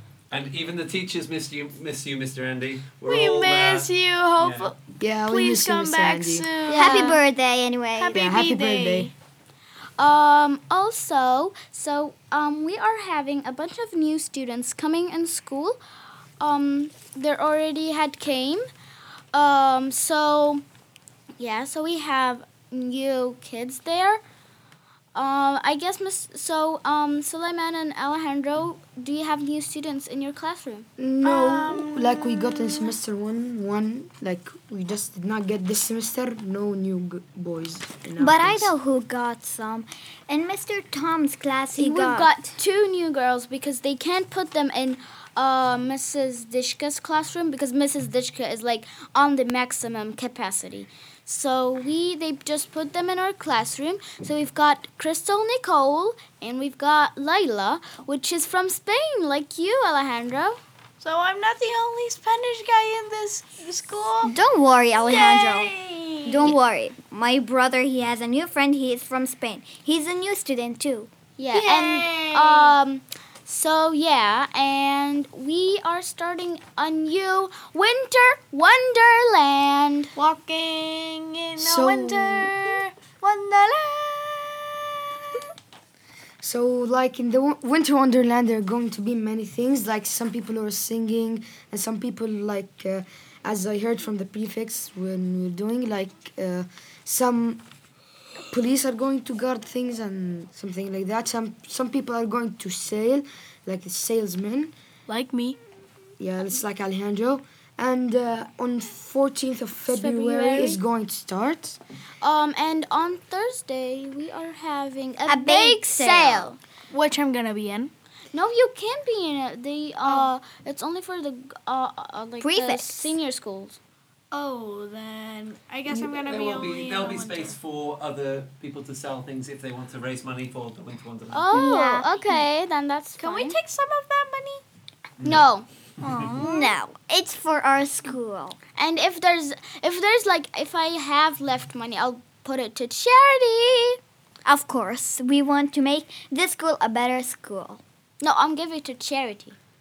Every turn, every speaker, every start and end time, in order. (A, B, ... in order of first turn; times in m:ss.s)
0:00.3-0:04.7 A
0:03.1-0:04.8 B
0:05.0-0:06.5 C
0:05.3-0:07.2 B
0:06.7-0:08.2 D
0:06.7-0:07.2 E
0:08.0-0:09.1 B
0:08.1-0:09.1 C
0:10.0-0:15.8 E
0:16.4-0:18.7 E
0:19.3-0:20.6 E
0:21.4-0:24.2 E
0:25.1-0:30.9 E
0:31.0-0:38.7 C
0:31.2-0:32.9 B
0:38.2-0:42.4 D
0:41.8-1:00.6 E
1:01.0-1:04.4 B
1:04.2-1:05.7 D
1:05.0-1:06.5 B
1:06.2-1:11.1 D
1:11.4-1:20.1 E
1:11.5-1:12.7 B
1:20.2-1:25.4 B
1:21.6-1:22.6 C
1:26.4-1:37.6 C
1:38.5-1:44.7 C
1:45.1-1:45.6 B
1:46.2-1:51.8 C
1:49.9-1:50.8 E
1:52.2-1:56.6 E
1:55.3-1:56.5 D
1:56.9-1:57.9 B
1:58.3-2:03.8 E
2:00.0-2:00.3 B
2:02.4-2:03.2 D
2:04.3-2:07.6 B
2:06.2-2:11.6 A
2:11.3-2:13.6 E
2:11.5-2:12.4 D
2:13.2-2:14.6 B
2:15.2-2:15.4 A
2:15.2-2:15.7 E
2:16.0-2:16.8 B
2:16.0-2:16.4 A
2:16.4-2:18.6 D
2:18.8-2:24.0 E
2:24.4-2:27.8 D
2:28.2-2:29.6 E